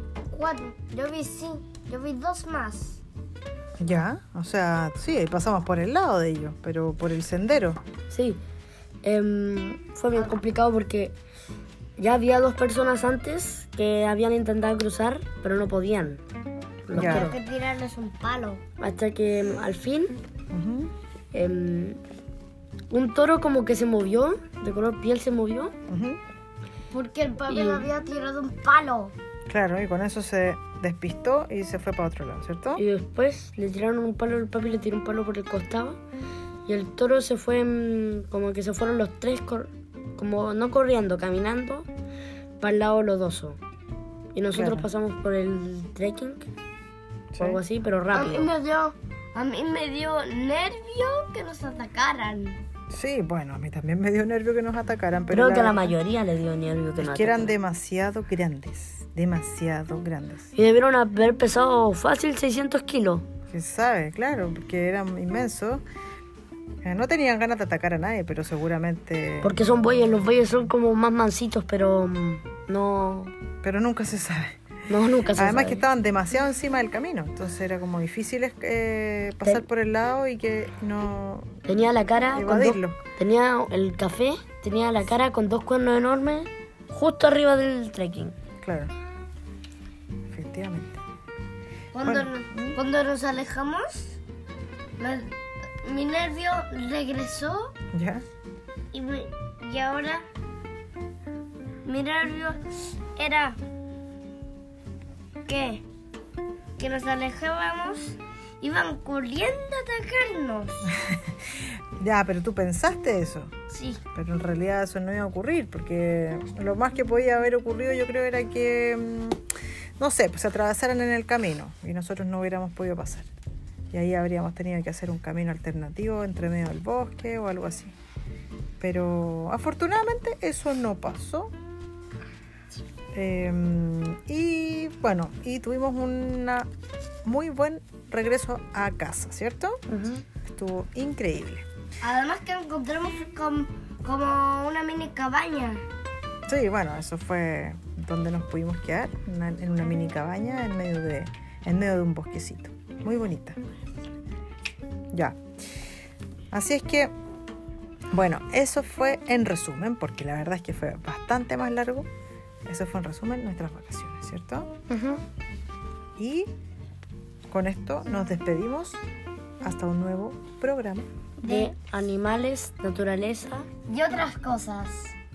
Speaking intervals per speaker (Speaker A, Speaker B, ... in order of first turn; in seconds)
Speaker A: 0.3-3.0, 16.9-18.6, 26.9-29.1, 48.1-52.6, 91.9-94.2, 95.0-97.7, 98.9-100.3, 101.8-102.6, 103.2-103.6, 105.5-105.8, 106.8-110.9, 113.7-114.0, 142.0-145.8, 171.4-171.7, 173.9-175.2
Speaker B: 3.8-7.8, 16.9-17.3, 20.5-20.9, 25.9-26.2, 29.5-32.8, 44.5-44.9, 47.3-47.6, 52.9-56.0, 57.0-60.5, 63.5-65.8, 66.8-69.6, 73.6-74.7, 75.3-81.6, 82.3-83.0, 88.6-88.9, 90.3-91.0, 92.0-92.8, 97.9-98.2, 111.0-113.5, 114.1-119.4, 120.0-123.3, 123.9-128.0, 128.8-131.5, 133.1-136.7, 137.2-139.8, 140.5-141.7, 146.5-153.6, 155.1-155.4, 156.5-157.1, 158.1-162.1, 162.7-164.7, 166.2-166.5, 167.5-169.0, 169.6-171.1
Speaker C: 8.1-8.4, 9.0-11.1, 12.0-16.2, 16.9-17.4, 18.8-20.1, 21.3-22.0, 22.9-25.7, 27.5-27.9, 32.8-36.0, 36.7-41.9, 42.6-43.6, 44.3-46.5, 47.4-48.5, 55.3-57.6, 60.5-63.3, 69.4-73.3, 74.9-75.8, 81.7-88.4, 139.9-140.2, 164.9-165.2, 171.4-173.7